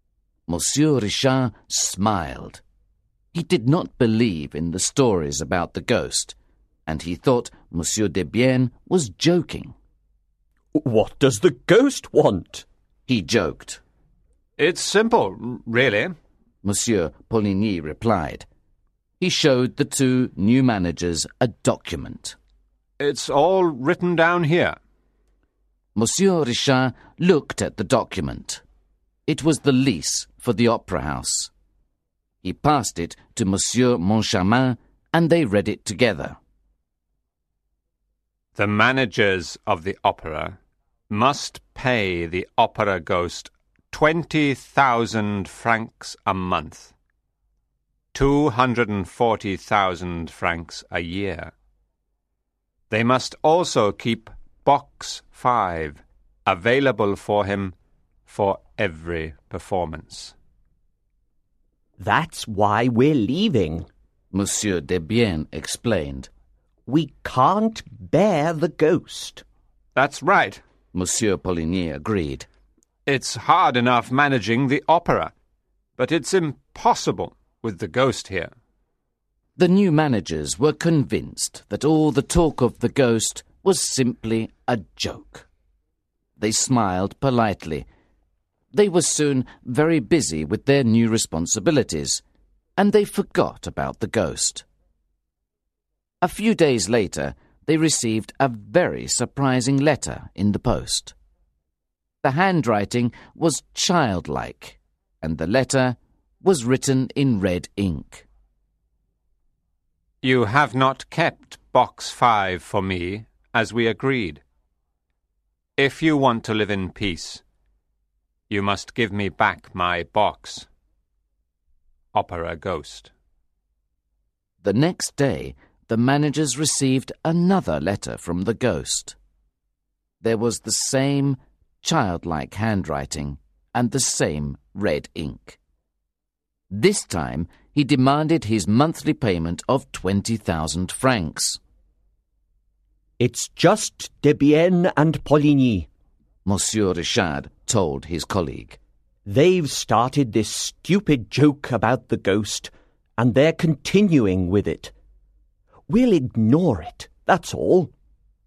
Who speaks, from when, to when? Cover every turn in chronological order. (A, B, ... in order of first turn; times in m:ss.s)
0:00.5-0:02.6 A
0:03.3-0:09.8 A
0:10.8-0:12.7 B
0:13.1-0:13.8 A
0:14.6-0:16.2 C
0:16.6-0:18.5 A
0:19.2-0:22.4 A
0:23.0-0:24.8 C
0:26.0-0:28.6 A
0:29.3-0:31.5 A
0:32.4-0:36.4 A
0:38.6-0:40.6 C
0:41.1-0:46.9 C
0:48.1-0:51.5 C
0:52.9-0:57.8 C
0:58.3-1:00.4 C
1:02.0-1:03.9 B
1:04.3-1:06.3 A
1:06.9-1:09.4 B
1:10.0-1:10.6 C
1:10.9-1:12.5 A
1:13.1-1:15.3 C
1:16.0-1:18.5 C
1:19.6-1:25.5 A
1:26.4-1:27.9 A
1:28.7-1:32.2 A
1:32.8-1:34.6 A
1:36.2-1:41.2 A
1:42.2-1:48.3 A
1:50.2-1:54.4 C
1:55.8-1:57.4 C
1:58.5-2:00.7 C
2:02.1-2:03.1 C
2:04.6-2:09.2 A
2:10.2-2:15.6 A
2:16.7-2:21.6 A
2:23.2-2:25.9 B
2:26.4-2:28.8 A
2:29.3-2:34.9 B
2:35.9-2:37.9 B